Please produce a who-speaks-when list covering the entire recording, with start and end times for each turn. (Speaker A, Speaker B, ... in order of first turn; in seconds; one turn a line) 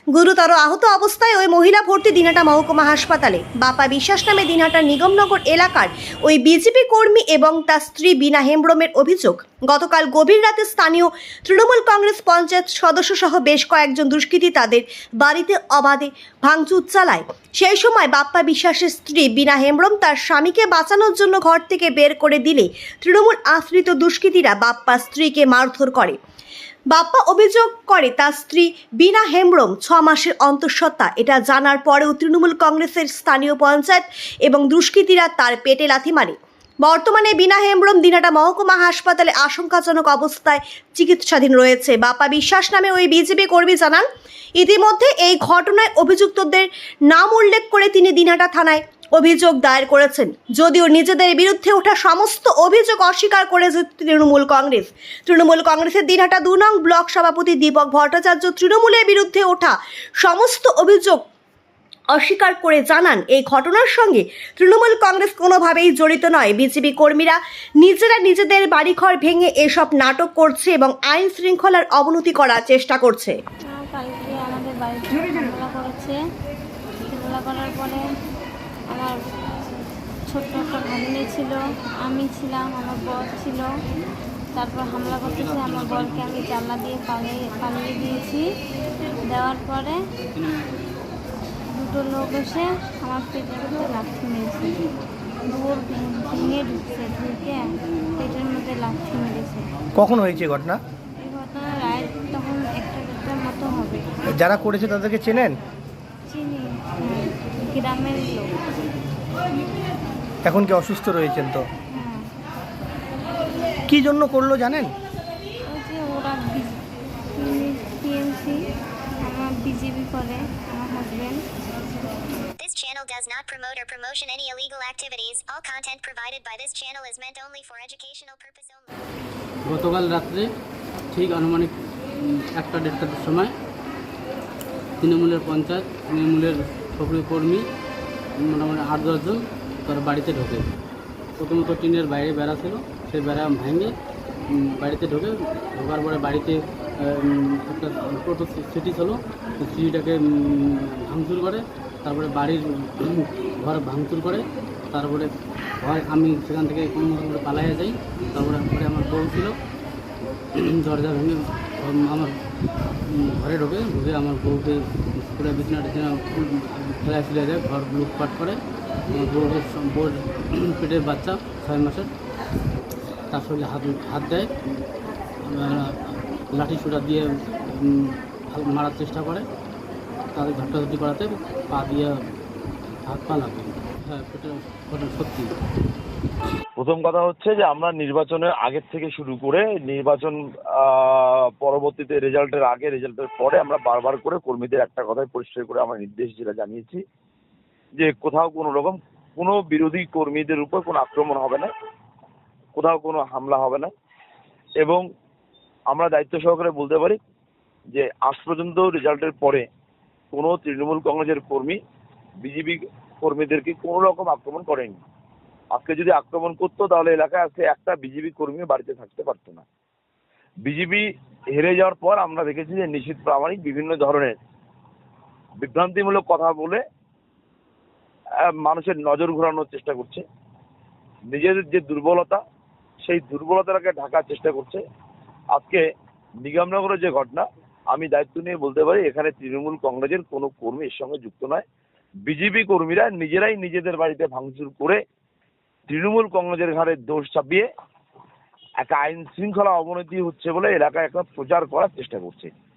Speaker A: 0.1-26.2
Speaker A: 26.9-44.1
Speaker A: 44.6-61.2
Speaker A: 62.1-73.4
Speaker B: 73.7-76.2
Speaker B: 77.0-78.0
Speaker B: 78.9-79.2
Speaker B: 80.3-83.7
Speaker B: 84.6-88.5
Speaker C: 85.2-86.4
Speaker B: 89.3-90.0
Speaker B: 91.7-94.8
Speaker B: 95.5-99.7
Speaker D: 100.0-100.8
Speaker B: 101.2-104.1
Speaker D: 104.3-105.6
Speaker B: 106.3-108.6
Speaker D: 110.4-111.7
Speaker B: 111.9-112.3
Speaker D: 113.9-114.9
Speaker B: 115.7-116.8
Speaker B: 117.4-118.7
Speaker B: 119.2-121.5
Speaker E: 122.6-128.9
Speaker C: 129.7-130.5
Speaker C: 131.1-133.5
Speaker C: 135.0-137.6
Speaker C: 138.4-140.7
Speaker C: 141.4-143.9
Speaker C: 144.6-155.3
Speaker C: 155.8-159.6
Speaker C: 160.6-162.3
Speaker C: 163.1-168.6
Speaker C: 169.1-172.1
Speaker C: 173.3-174.5
Speaker C: 175.5-179.5
Speaker C: 180.3-182.1
Speaker C: 183.1-185.5
Speaker F: 186.8-197.0
Speaker F: 198.0-201.7
Speaker F: 202.8-203.9
Speaker F: 205.9-207.2
Speaker F: 207.9-209.7
Speaker F: 210.3-211.8
Speaker F: 212.4-215.0
Speaker F: 215.7-219.7
Speaker F: 220.7-224.4
Speaker F: 225.6-226.8
Speaker F: 228.5-230.2
Speaker F: 231.3-232.4
Speaker F: 233.1-234.8
Speaker F: 235.5-235.8
Speaker F: 236.4-241.7
Speaker F: 242.3-245.0
Speaker F: 245.9-247.7
Speaker F: 248.8-252.5